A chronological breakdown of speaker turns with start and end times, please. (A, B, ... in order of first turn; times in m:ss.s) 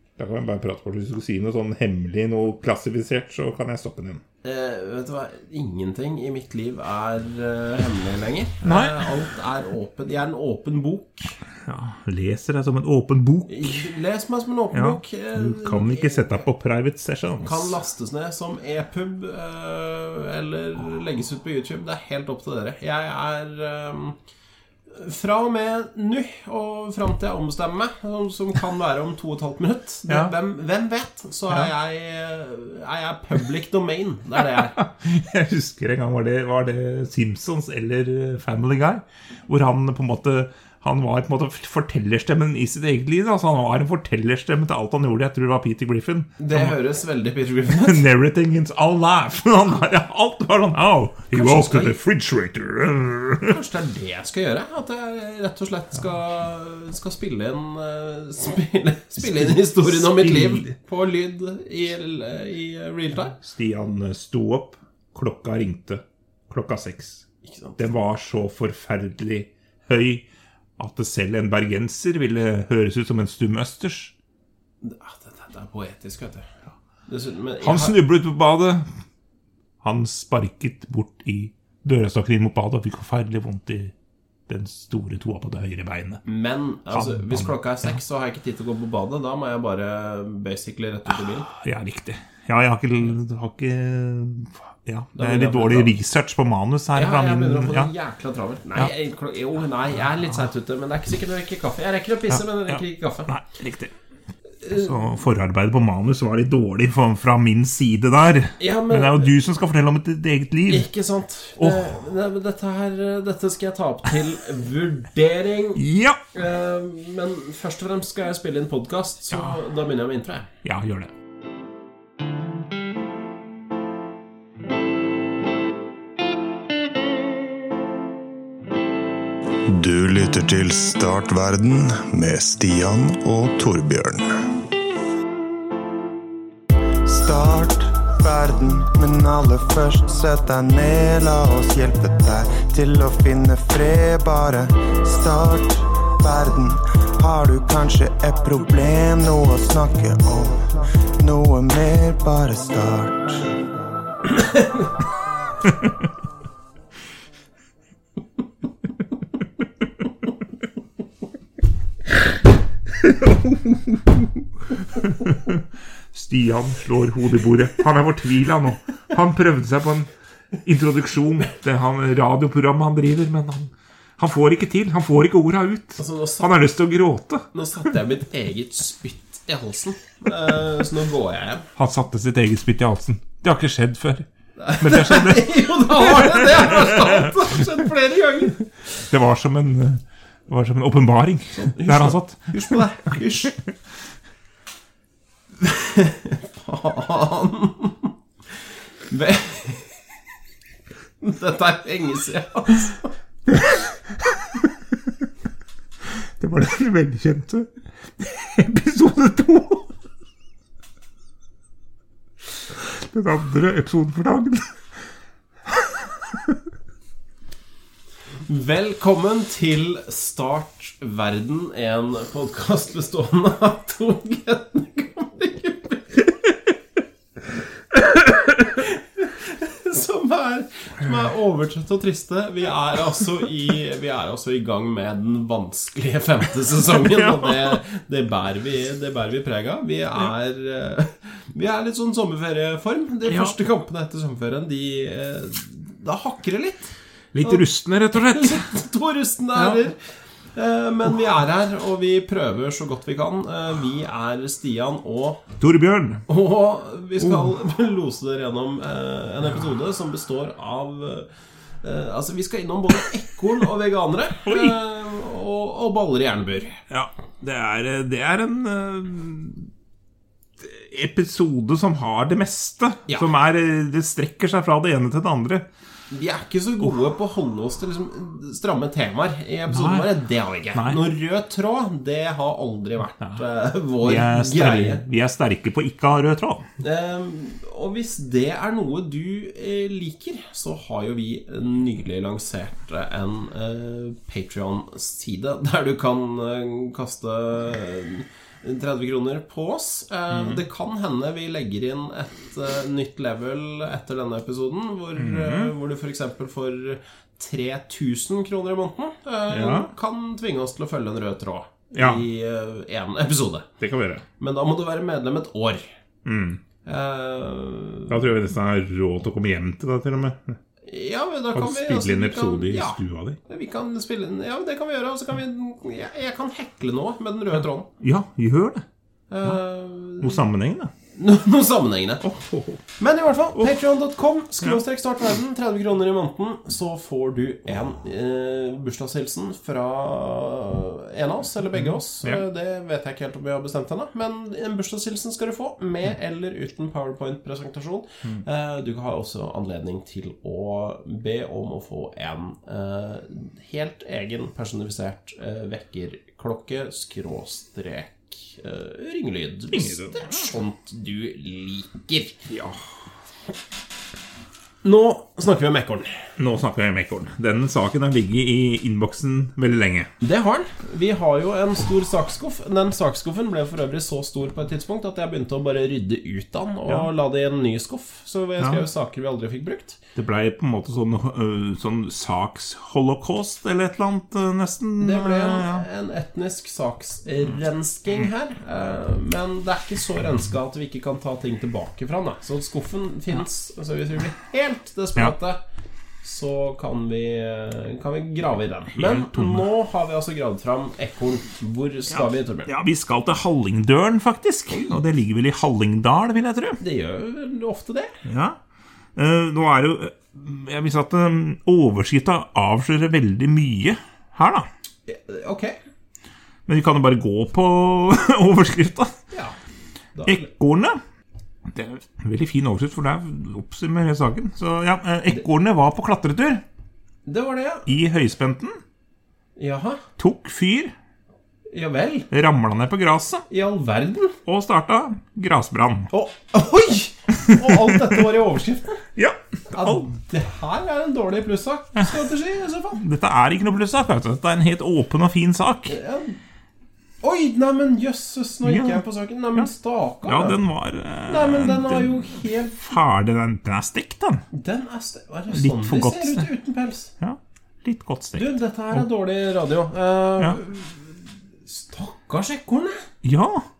0:00.2-0:04.2 A
0:04.4-0:11.3 B
0:08.6-0:09.1 A
0:11.6-0:13.9 A
0:13.5-0:16.4 B
0:14.7-0:17.8 A
0:17.4-0:24.2 B
0:24.9-0:34.8 B
0:30.1-0:30.3 A
0:34.6-0:46.8 A
0:46.4-0:48.0 B
0:47.7-0:53.6 A
0:51.3-0:52.0 B
0:53.5-1:03.4 B
0:59.2-1:00.7 A
1:03.4-1:07.2 A
1:07.4-1:07.8 B
1:07.8-1:14.1 A
1:14.8-1:16.5 B
1:17.1-1:18.0 B
1:17.6-1:18.8 A
1:19.8-1:23.9 A
1:24.5-1:26.2 A
1:26.2-1:31.5 B
1:26.9-1:28.0 A
1:31.1-1:37.9 A
1:35.2-1:35.9 B
1:36.9-1:43.3 B
1:42.3-1:43.9 A
1:44.6-1:44.9 B
1:44.7-1:50.9 A
1:48.6-1:49.3 B
1:50.7-1:55.8 B
1:51.6-1:51.8 A
1:55.8-1:56.2 A
1:56.3-2:00.5 B
1:59.3-1:59.6 A
2:00.6-2:01.1 A
2:09.7-2:14.6 C
2:17.0-2:33.5 C
2:34.3-2:34.7 B
2:35.7-2:35.9 A
2:44.8-2:50.1 A
2:50.6-2:57.5 A
2:56.0-2:56.5 B
2:57.5-3:01.6 B
3:01.8-3:07.3 A
3:04.6-3:08.6 B
3:09.0-3:13.1 A
3:11.6-3:13.6 B
3:15.6-3:18.1 B
3:19.1-3:19.9 B
3:21.2-3:23.1 B
3:23.5-3:24.7 A
3:26.4-3:29.9 A
3:32.8-3:34.8 A
3:35.8-3:36.5 A
3:38.5-3:46.3 B
3:47.9-4:10.0 B
3:57.1-3:57.8 A
4:03.3-4:03.5 A
4:07.3-4:08.7 A
4:09.6-4:09.8 A
4:10.5-4:15.4 B
4:15.6-4:16.2 A
4:16.3-4:21.3 B
4:17.2-4:17.5 A
4:21.8-4:26.8 B
4:24.4-4:24.7 A
4:26.9-4:29.7 A
4:30.6-4:35.7 A
4:36.1-4:45.0 B
4:39.7-4:40.1 A
4:40.7-4:41.0 A
4:44.0-4:46.7 A
4:46.8-5:13.7 B
5:00.3-5:00.6 A
5:05.2-5:05.7 A
5:09.5-5:09.9 A
5:11.9-5:12.2 A
5:13.8-5:14.2 A
5:14.4-5:15.8 B
5:16.2-5:16.6 A
5:16.8-5:18.2 B
5:18.1-5:20.6 A
5:20.9-5:27.9 B
5:21.5-5:23.4 A
5:28.0-5:28.8 A
5:29.3-5:30.4 B
5:30.2-5:30.9 A
5:31.1-5:32.3 B
5:32.2-5:32.8 A
5:33.0-6:02.4 B
5:41.8-5:42.4 A
5:59.7-6:00.4 A
6:02.5-6:02.8 A
6:04.8-6:06.2 B
6:06.4-6:10.1 A
6:10.2-6:20.0 B
6:18.6-6:18.8 A
6:20.2-6:25.8 A
6:25.0-6:35.6 B
6:36.2-6:42.7 B
6:39.0-6:39.7 A
6:42.1-6:46.8 A
6:44.7-6:45.0 B
6:46.8-6:48.1 B
6:48.2-6:48.6 A
6:49.2-6:54.7 A
6:55.1-6:55.8 B
6:56.7-6:59.1 A
7:00.1-7:00.5 B
7:00.2-7:01.0 A
7:01.7-7:06.6 A
7:07.2-7:07.9 B
7:07.9-7:08.8 A
7:09.6-7:10.0 B
7:10.2-7:10.9 A
7:11.7-7:12.3 B
7:12.3-7:13.4 A
7:13.5-7:14.4 B
7:14.4-7:16.1 A
7:16.1-7:19.0 B
7:19.2-7:20.1 A
7:19.7-7:23.0 B
7:23.0-7:26.0 A
7:25.9-7:26.4 B
7:27.2-7:30.6 B
7:28.6-7:29.0 A
7:30.2-7:34.4 A
7:31.3-7:32.9 B
7:34.5-7:37.1 B
7:35.5-7:36.5 A
7:37.2-7:39.0 A
7:38.4-7:43.0 B
7:43.2-7:43.6 A